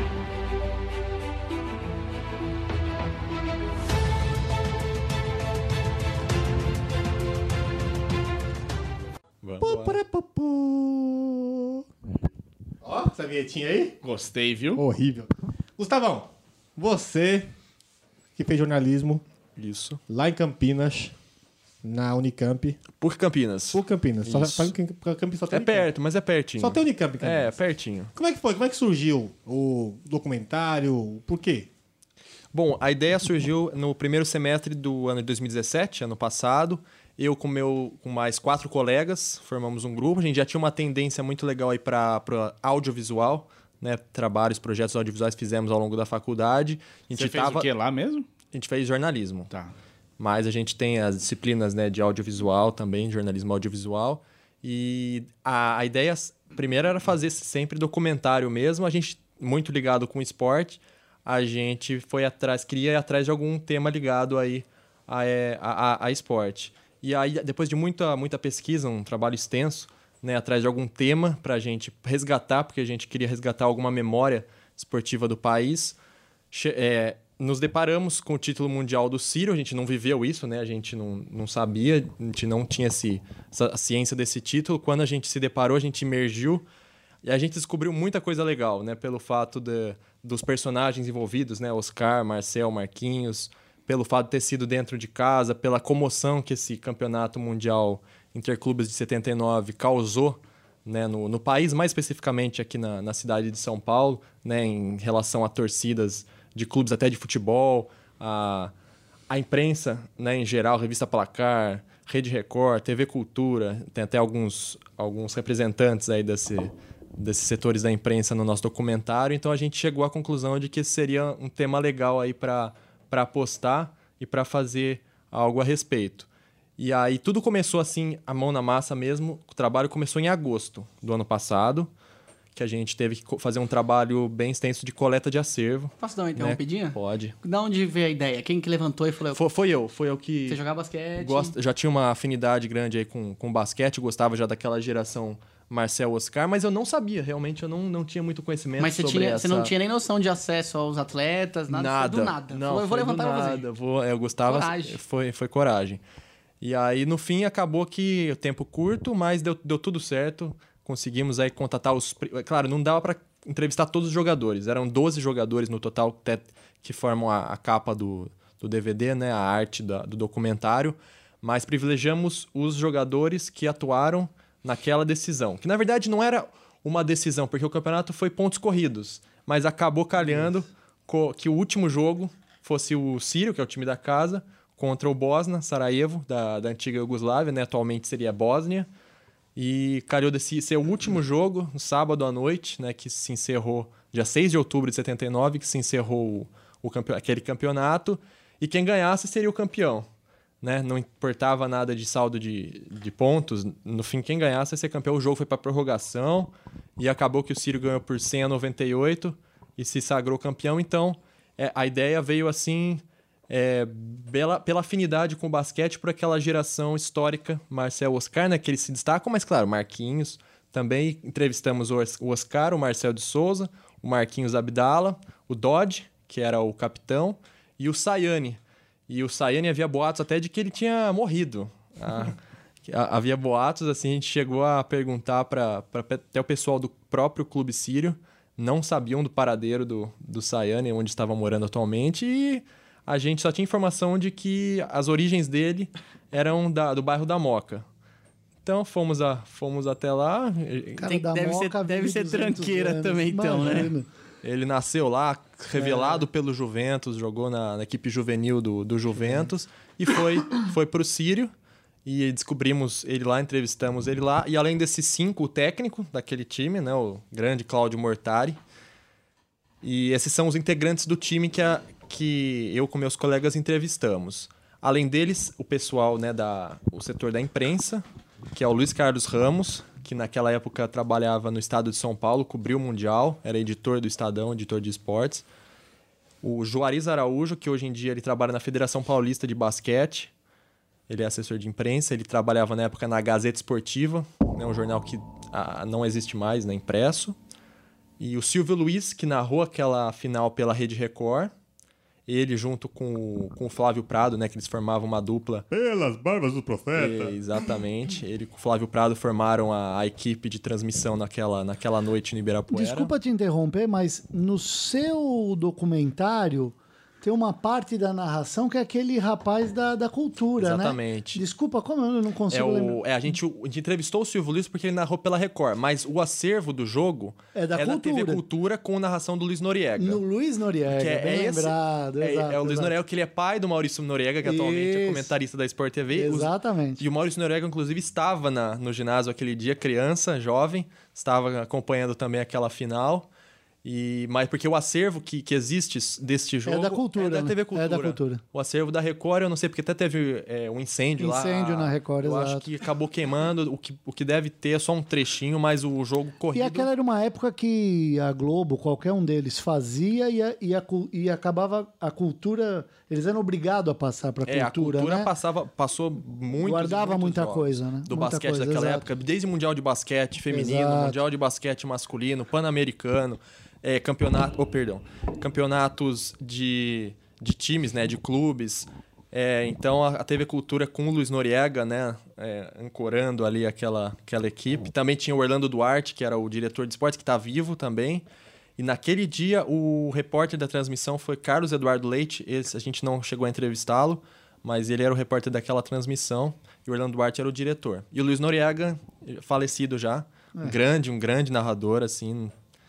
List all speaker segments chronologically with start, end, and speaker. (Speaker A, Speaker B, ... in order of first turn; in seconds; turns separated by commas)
Speaker A: 9.4-10.0, Speaker B: 9.6-11.8, Speaker B: 12.8-14.0, Speaker C: 14.0-14.8, Speaker B: 14.8-17.5, Speaker B: 18.4-19.2, Speaker A: 19.6-20.0, Speaker B: 20.1-21.1, Speaker B: 21.8-22.8, Speaker A: 23.0-24.7, Speaker B: 23.7-25.9, Speaker A: 25.5-28.1, Speaker B: 26.6-27.5, Speaker B: 28.1-31.7, Speaker A: 32.5-47.7, Speaker C: 47.1-48.3, Speaker A: 48.5-49.5, Speaker A: 50.2-76.0, Speaker A: 76.5-86.7, Speaker A: 87.2-108.7, Speaker A: 109.3-126.3, Speaker A: 126.8-131.9, Speaker A: 132.6-137.3, Speaker D: 136.0-139.4, Speaker A: 139.3-140.6, Speaker D: 140.5-141.6, Speaker A: 141.2-149.7, Speaker D: 148.8-153.7, Speaker A: 151.7-156.0, Speaker D: 154.5-155.0, Speaker A: 156.6-188.9, Speaker A: 189.6-200.1, Speaker A: 200.6-232.4, Speaker A: 232.9-247.8, Speaker A: 248.7-251.0, Speaker E: 251.0-254.1, Speaker D: 251.0-253.9, Speaker A: 254.4-261.5, Speaker E: 255.8-256.2, Speaker A: 262.1-268.6, Speaker A: 269.8-285.4, Speaker A: 286.4-290.3, Speaker A: 291.1-297.4, Speaker A: 298.2-301.5, Speaker A: 302.3-305.7, Speaker B: 305.7-307.4, Speaker A: 306.9-313.1, Speaker E: 312.7-323.0, Speaker A: 320.6-321.4, Speaker A: 322.5-330.2, Speaker E: 327.5-328.4, Speaker E: 330.0-332.9, Speaker A: 330.9-343.3, Speaker E: 334.4-335.3, Speaker E: 336.1-337.0, Speaker A: 343.8-356.9, Speaker E: 346.7-348.4, Speaker E: 351.2-352.6, Speaker E: 356.5-365.3, Speaker A: 364.4-388.2, Speaker E: 366.6-369.1, Speaker E: 370.5-371.2, Speaker A: 388.8-402.5